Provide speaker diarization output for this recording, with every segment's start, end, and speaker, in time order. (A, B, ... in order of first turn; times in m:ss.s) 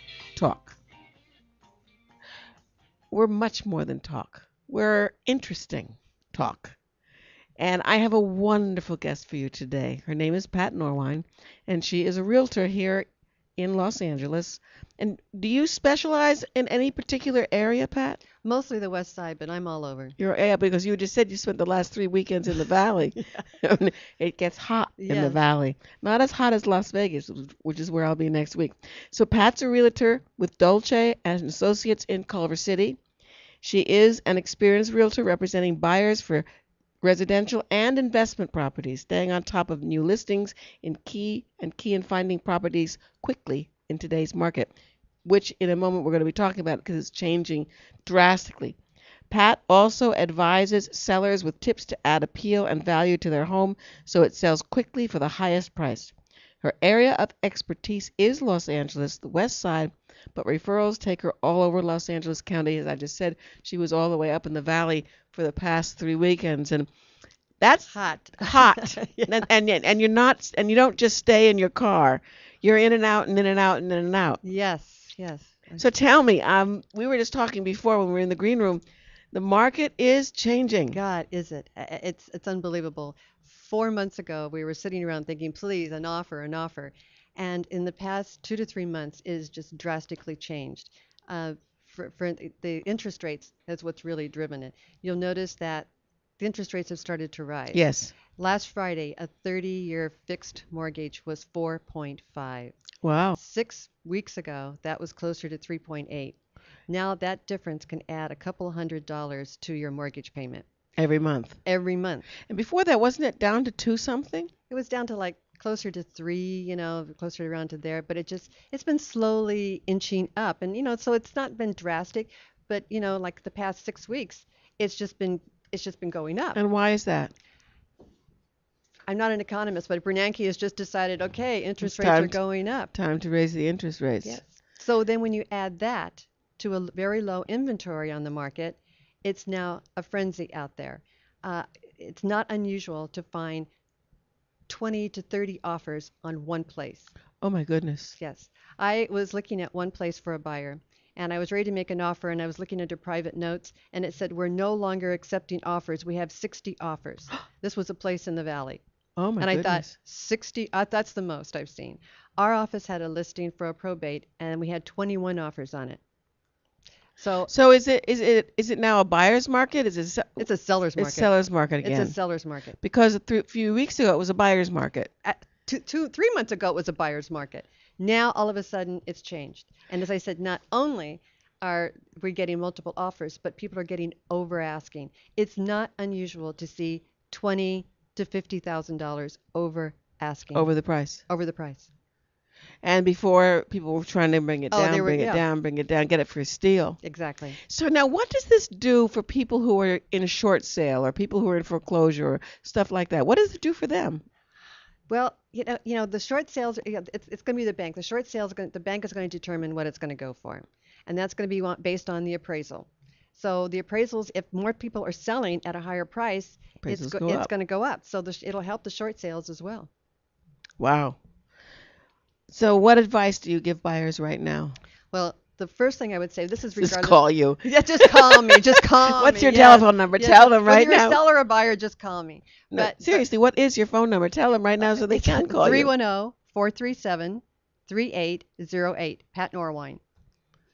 0:00.3-0:00.8 A
0:03.1-0:06.8 A
0:07.6-0:18.2 A
0:18.4-0:20.2 B
0:20.2-0:33.0 A
0:25.0-0:25.4 B
0:33.6-0:36.4 A
0:37.0-0:44.7 A
0:45.2-0:48.8 A
0:49.3-1:06.9 A
1:07.6-1:14.4 A
1:07.9-1:09.4 B
1:14.4-1:15.9 B
1:15.8-1:21.0 A
1:20.9-1:35.9 B
1:36.4-1:42.8 B
1:37.7-1:38.1 A
1:43.0-1:43.4 A
1:43.4-1:46.4 B
1:46.9-1:50.6 B
1:51.0-1:51.6 A
1:51.6-1:52.3 B
1:52.5-1:54.5 A
1:54.7-2:06.6 B
2:06.5-2:07.3 A
2:09.1-2:12.9 B
2:11.8-2:12.4 A
2:12.9-2:14.4 A
2:14.2-2:23.7 B
2:24.7-2:27.1 B
2:27.4-2:28.2 A
2:28.2-2:38.8 B
2:39.2-2:39.9 A
2:39.4-2:46.0 B
2:47.2-2:47.5 B
2:47.5-2:50.4 A
2:50.4-2:51.3 B
2:51.0-2:52.1 A
2:51.8-2:52.8 B
2:52.8-2:55.1 A
2:55.2-3:10.7 B
3:10.5-3:11.2 A
3:11.3-3:11.9 B
3:12.8-3:17.0 A
3:14.7-3:15.4 B
3:17.0-3:17.6 B
3:17.7-3:24.2 A
3:25.1-3:39.9 B
3:36.8-3:37.5 A
3:40.8-3:41.2 A
3:42.5-3:44.8 A
3:45.1-3:53.2 B
3:46.8-3:51.2 A
3:52.7-3:55.9 A
3:55.2-4:00.0 B